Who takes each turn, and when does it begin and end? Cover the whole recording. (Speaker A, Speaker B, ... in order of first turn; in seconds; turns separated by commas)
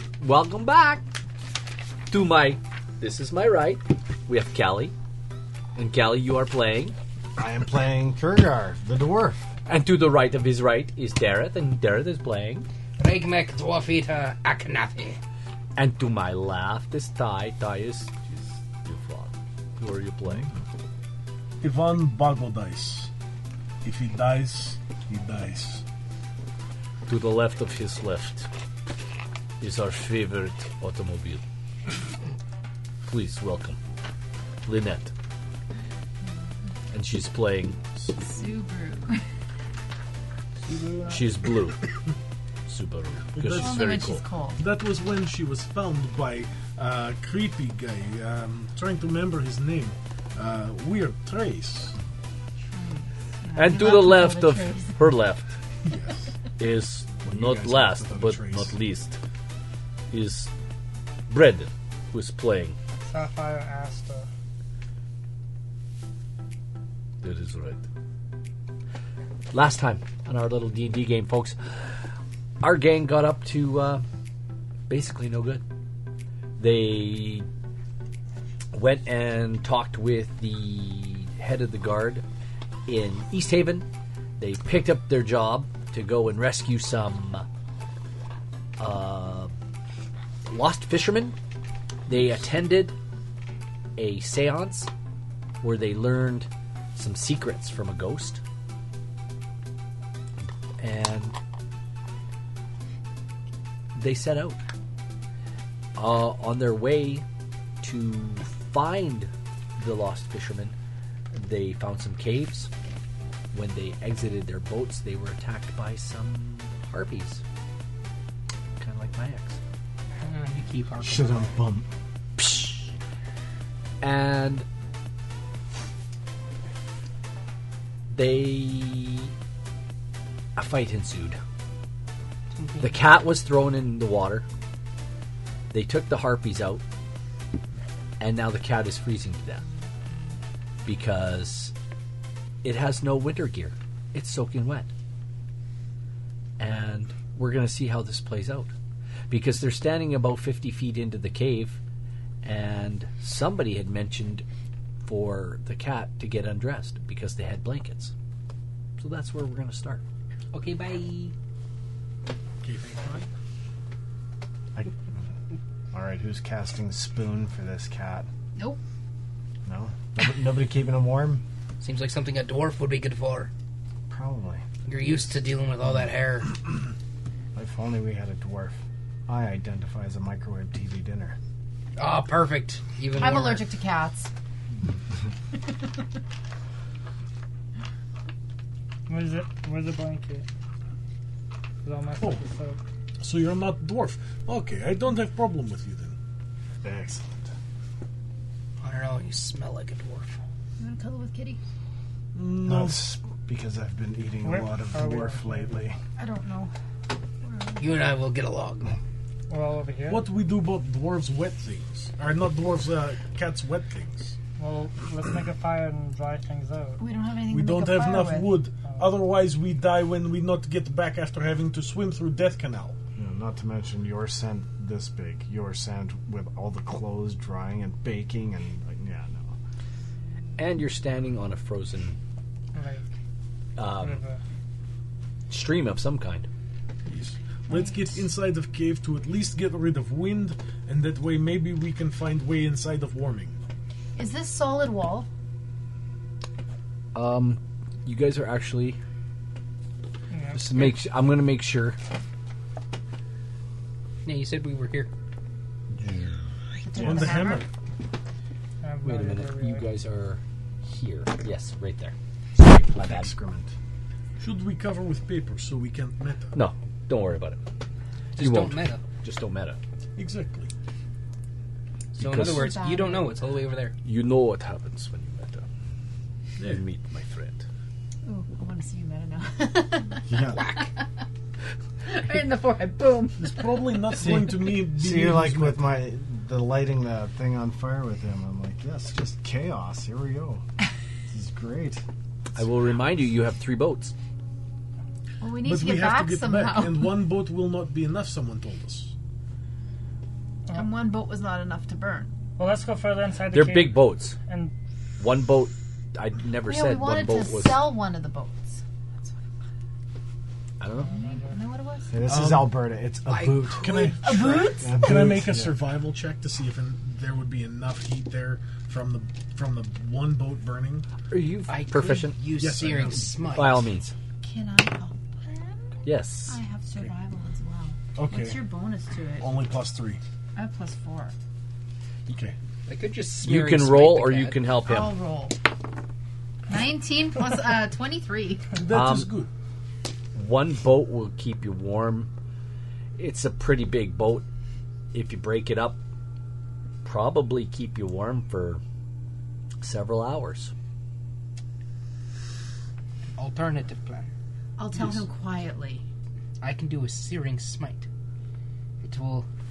Speaker A: 0.2-1.1, Speaker A: 2.1-4.9, Speaker A: 5.8-7.0, Speaker B: 7.4-9.4, Speaker A: 9.7-12.7, Speaker C: 13.0-15.2, Speaker A: 15.8-20.5, Speaker D: 21.6-23.1, Speaker D: 23.8-25.8, Speaker A: 27.1-28.5, Speaker A: 29.6-31.4, Speaker A: 33.1-33.8, Speaker A: 34.6-35.1, Speaker A: 36.9-37.8, Speaker E: 38.1-39.2, Speaker A: 41.1-41.9, Speaker A: 42.7-44.2, Speaker D: 43.3-44.0, Speaker E: 43.5-44.6, Speaker D: 44.6-52.0, Speaker E: 52.6-55.1, Speaker A: 53.5-55.5, Speaker D: 55.8-56.3, Speaker A: 56.6-59.2, Speaker D: 57.2-58.8, Speaker A: 60.1-60.5, Speaker A: 61.3-62.8, Speaker F: 63.0-64.3, Speaker A: 67.2-67.8, Speaker A: 69.5-71.6, Speaker A: 72.6-74.0, Speaker A: 74.9-75.6, Speaker A: 76.6-77.5, Speaker A: 78.7-82.2, Speaker A: 82.9-83.9, Speaker A: 84.4-87.5, Speaker A: 88.8-89.5, Speaker A: 90.5-91.3, Speaker A: 92.1-92.9, Speaker A: 94.0-94.9, Speaker A: 95.6-98.4, Speaker A: 100.8-101.4, Speaker A: 104.0-104.6, Speaker A: 106.0-107.2, Speaker A: 107.8-110.7, Speaker A: 111.3-112.7, Speaker A: 113.5-117.4, Speaker A: 118.8-119.6, Speaker C: 120.2-121.6, Speaker B: 121.0-121.9, Speaker A: 122.4-122.9, Speaker A: 124.0-124.7, Speaker A: 128.1-129.3, Speaker A: 130.6-131.4, Speaker C: 132.6-133.0, Speaker A: 132.8-134.4, Speaker A: 135.7-136.8, Speaker A: 138.2-139.6, Speaker A: 140.8-141.7, Speaker A: 142.6-144.9, Speaker A: 146.6-148.7, Speaker A: 149.3-151.8, Speaker A: 152.4-154.4, Speaker A: 155.1-158.1, Speaker A: 159.0-160.0, Speaker C: 160.5-161.3, Speaker D: 162.6-163.3, Speaker B: 165.9-168.3, Speaker B: 169.7-171.4, Speaker C: 171.8-173.5, Speaker B: 174.1-174.7, Speaker C: 174.9-176.6, Speaker B: 177.5-181.4, Speaker C: 182.0-183.7, Speaker E: 183.1-184.3, Speaker F: 189.1-190.5, Speaker F: 191.8-192.8, Speaker D: 193.2-196.2, Speaker B: 196.8-197.5, Speaker C: 198.8-200.4, Speaker E: 200.8-201.6, Speaker D: 202.3-203.1, Speaker B: 202.6-206.0, Speaker F: 204.4-205.8, Speaker E: 206.2-206.7, Speaker E: 207.4-208.0, Speaker C: 207.8-209.0, Speaker F: 209.5-210.3, Speaker D: 210.1-214.4, Speaker F: 214.6-217.0, Speaker E: 217.0-218.6, Speaker D: 217.5-223.0, Speaker B: 223.2-229.5, Speaker A: 230.6-232.2, Speaker F: 232.7-233.1, Speaker A: 233.8-234.2, Speaker F: 234.0-234.4, Speaker A: 235.5-236.5, Speaker D: 237.1-243.6, Speaker E: 237.7-238.2, Speaker E: 244.2-245.3, Speaker A: 247.1-249.0, Speaker F: 250.3-250.6, Speaker A: 250.6-252.0, Speaker C: 254.2-255.1, Speaker A: 255.9-256.5, Speaker E: 256.8-257.6, Speaker D: 257.0-257.7, Speaker F: 258.8-259.9, Speaker A: 259.0-263.3, Speaker B: 262.7-263.7, Speaker D: 264.4-266.6, Speaker A: 266.5-267.6, Speaker C: 268.4-269.1, Speaker A: 268.4-269.8, Speaker D: 270.2-270.7, Speaker A: 272.2-272.8, Speaker C: 272.2-274.0, Speaker E: 272.3-273.4, Speaker A: 274.0-275.6, Speaker D: 276.6-276.9, Speaker A: 276.6-277.6, Speaker E: 278.2-281.1, Speaker B: 280.3-280.6, Speaker C: 280.4-280.9, Speaker E: 282.1-284.3, Speaker D: 283.4-285.9, Speaker B: 284.2-290.6, Speaker B: 291.3-292.0, Speaker A: 292.6-294.1, Speaker E: 295.4-297.3, Speaker D: 295.6-299.1, Speaker E: 300.7-302.3, Speaker F: 302.6-304.7, Speaker A: 303.5-304.4, Speaker A: 305.2-308.0, Speaker E: 306.6-309.5, Speaker A: 310.8-311.1, Speaker F: 310.9-311.6, Speaker E: 311.2-312.2, Speaker B: 312.1-313.9, Speaker D: 312.2-312.8, Speaker C: 313.3-314.1, Speaker D: 313.7-321.1, Speaker E: 313.9-315.0, Speaker B: 314.8-315.8, Speaker A: 321.3-322.5, Speaker C: 321.7-323.9, Speaker D: 322.6-323.4, Speaker A: 323.4-324.1, Speaker E: 324.4-325.9, Speaker A: 326.1-326.6, Speaker E: 326.5-329.6, Speaker D: 328.2-328.7, Speaker D: 329.4-330.2, Speaker E: 330.6-331.4, Speaker D: 332.3-332.6, Speaker C: 332.9-334.6, Speaker A: 333.4-335.2, Speaker E: 334.8-335.6, Speaker E: 336.7-338.8, Speaker D: 338.7-339.5, Speaker A: 338.9-339.3, Speaker A: 340.4-342.3, Speaker A: 343.2-344.4, Speaker A: 345.1-346.0, Speaker A: 347.0-348.8, Speaker A: 349.8-350.7, Speaker C: 353.4-354.3, Speaker E: 354.8-356.1, Speaker D: 355.0-355.2, Speaker C: 356.6-358.1, Speaker C: 359.0-359.5